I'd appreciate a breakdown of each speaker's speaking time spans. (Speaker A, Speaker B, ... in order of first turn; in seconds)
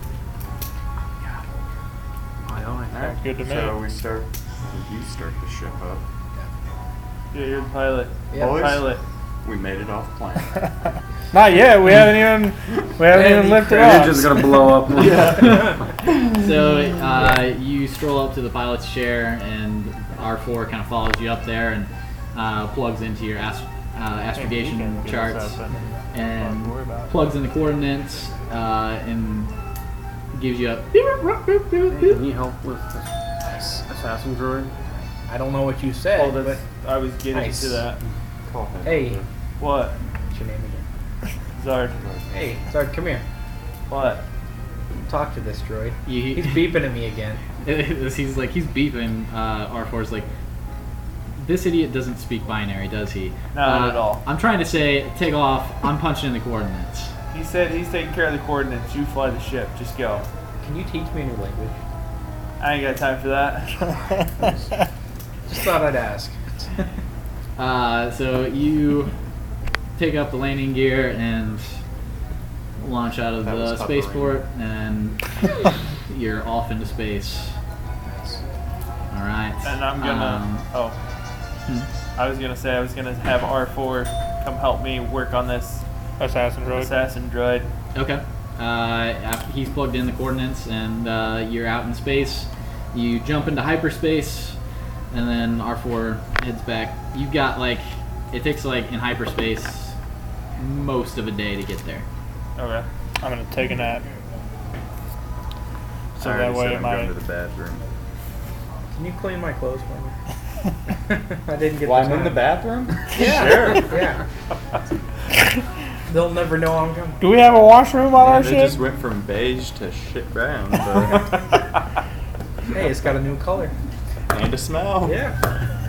Speaker A: 2.5-3.2, 13.1-15.7, 31.9-33.1, 33.9-34.7
Speaker B: 2.9-6.0, 8.3-8.9, 9.4-10.5, 14.9-16.4, 38.5-39.3, 42.0-42.4, 73.4-74.4, 106.2-107.8, 111.8-114.0, 118.1-121.5, 124.3-125.2
Speaker C: 3.2-3.8, 11.3-14.5, 24.4-27.1, 64.0-64.2, 86.2-86.9, 103.2-104.1, 106.2-107.1, 117.2-118.8
Speaker D: 7.3-9.0, 36.1-38.0, 39.6-40.0, 41.6-42.0, 43.9-44.2, 53.5-54.2, 57.3-60.3, 62.6-64.0, 79.6-81.0, 82.2-85.8, 86.6-87.7, 102.6-102.9
Speaker E: 15.4-25.6, 26.1-29.5, 30.3-32.2, 46.1-46.7, 47.6-50.3, 51.4-57.1, 67.6-69.1, 70.0-71.8, 72.8-75.4, 76.1-77.6, 79.1-80.7, 87.9-94.6, 95.1-100.0, 100.6-102.1
Speaker F: 33.5-33.8, 35.3-36.6, 37.3-37.9, 38.8-39.2, 40.3-40.9, 42.3-43.2, 45.1-47.4, 60.6-61.8, 65.5-66.9, 78.1-78.4, 108.9-110.2, 111.1-112.5, 113.1-114.2, 116.1-117.2, 121.1-121.3, 122.7-123.7, 125.0-125.4